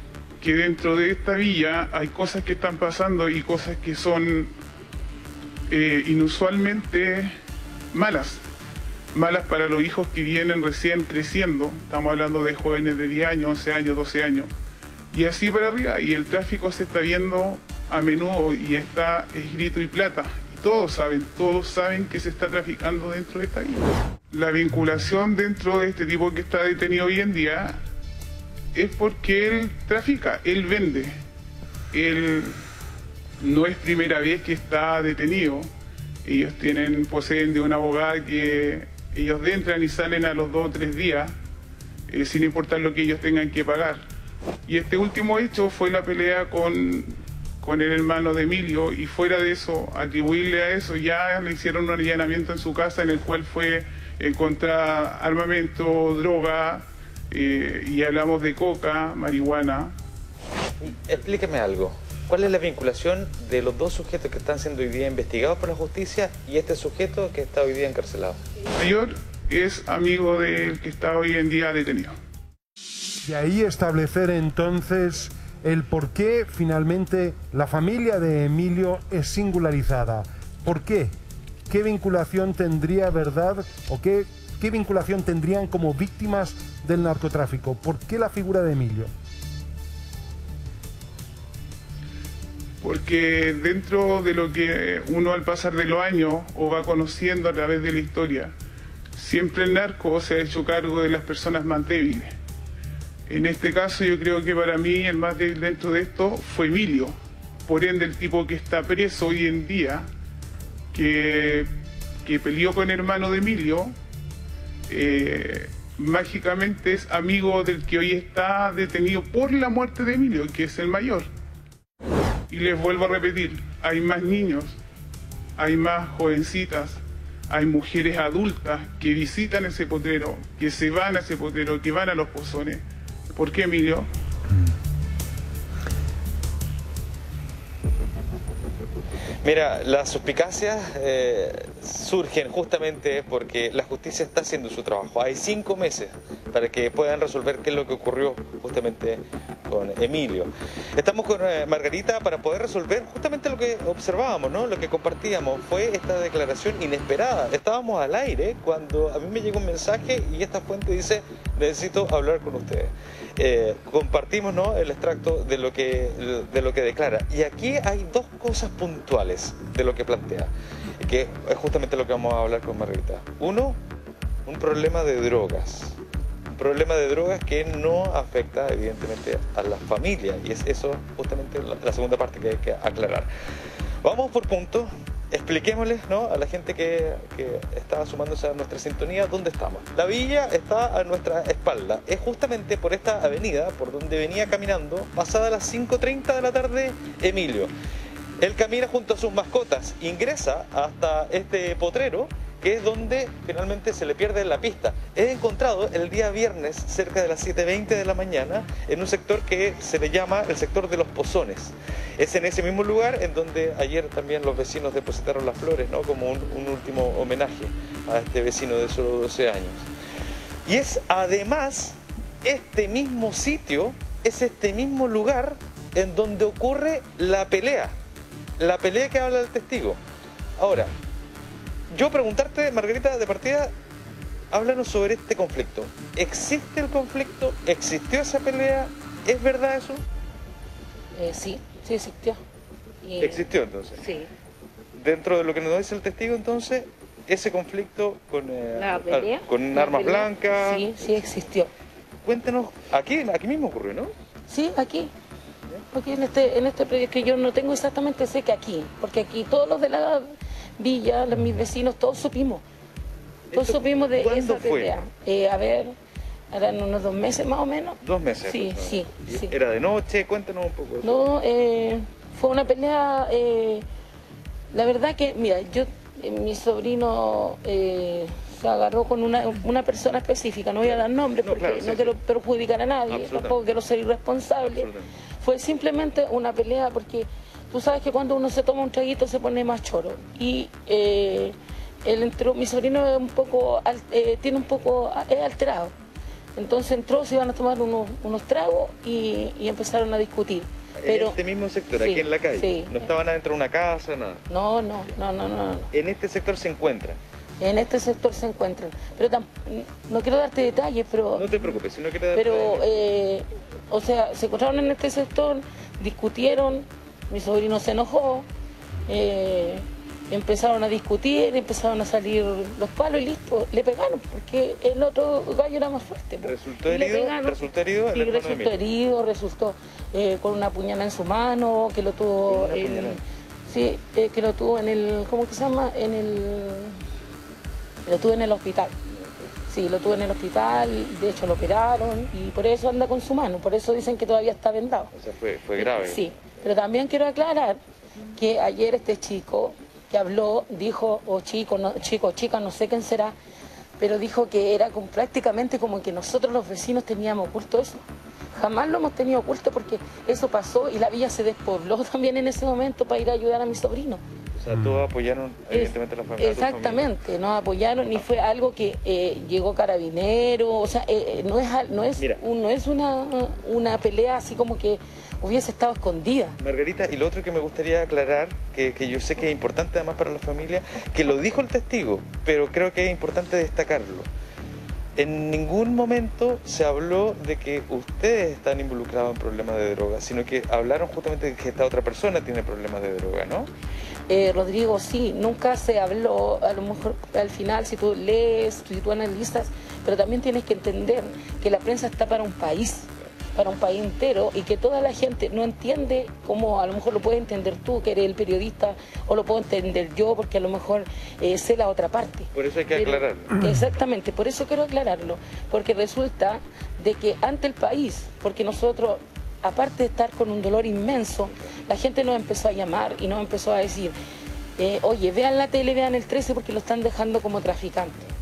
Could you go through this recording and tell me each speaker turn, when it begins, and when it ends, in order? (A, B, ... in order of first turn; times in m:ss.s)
0:00.4-0:04.5 A
0:05.7-0:07.3 A
0:07.9-0:08.4 A
0:09.1-0:14.5 A
0:15.1-0:27.8 A
0:28.7-0:31.2 A
0:31.9-0:32.6 A
0:33.4-0:35.7 A
0:36.2-0:41.3 A
0:42.1-0:44.0 A
0:44.7-0:59.9 A
1:00.8-1:08.4 B
1:08.7-1:12.2 A
1:13.2-1:21.1 C
1:21.7-1:29.1 C
1:32.8-1:38.5 A
1:39.1-1:42.3 A
1:43.3-1:50.1 A
1:50.9-1:51.7 A
1:52.2-1:53.9 A
1:54.9-2:01.3 A
2:02.5-2:04.8 A
2:05.6-2:14.1 A
2:19.4-2:53.8 B
2:54.4-2:56.0 B
2:56.5-3:03.3 B
3:04.0-3:17.7 B
3:18.4-3:39.9 B
3:40.6-3:47.9 B
3:48.6-3:50.0 B
3:50.6-3:50.9 B
3:51.9-3:53.7 B
3:54.5-4:00.0 B
4:01.2-4:02.4 D
4:03.0-4:04.3 D
4:03.2-4:04.0 B
4:05.0-4:11.1 B
4:08.7-4:11.7 D
4:12.2-4:14.1 B
4:14.5-4:15.1 D
4:15.9-4:22.6 D
4:23.5-4:25.0 B
4:23.5-4:25.9 D
4:26.5-4:29.5 D
4:28.0-4:31.2 B
4:31.0-4:33.8 D
4:34.7-4:44.9 D
4:40.8-4:42.1 B
4:43.1-4:43.6 B
4:44.7-4:45.1 B
4:45.4-4:55.9 D
4:56.6-5:01.4 D
5:01.0-5:04.4 B
5:01.9-5:03.0 D
5:04.5-5:05.9 D
5:05.9-5:07.2 B
5:07.6-5:11.6 D
5:11.3-5:12.9 B
5:12.3-5:18.5 D
5:19.1-5:37.0 D
5:26.4-5:28.8 B
5:32.5-5:33.2 B
5:38.0-5:38.9 D
5:39.7-5:45.1 D
5:45.1-5:46.2 B
5:45.8-5:47.8 D
5:48.3-5:53.4 D
5:54.0-6:04.2 D
6:04.6-6:07.1 B
6:05.7-6:16.5 D
6:16.6-6:24.3 B
6:25.2-6:33.7 B
6:34.3-7:04.1 D
6:52.5-6:53.5 B
7:04.8-7:08.2 D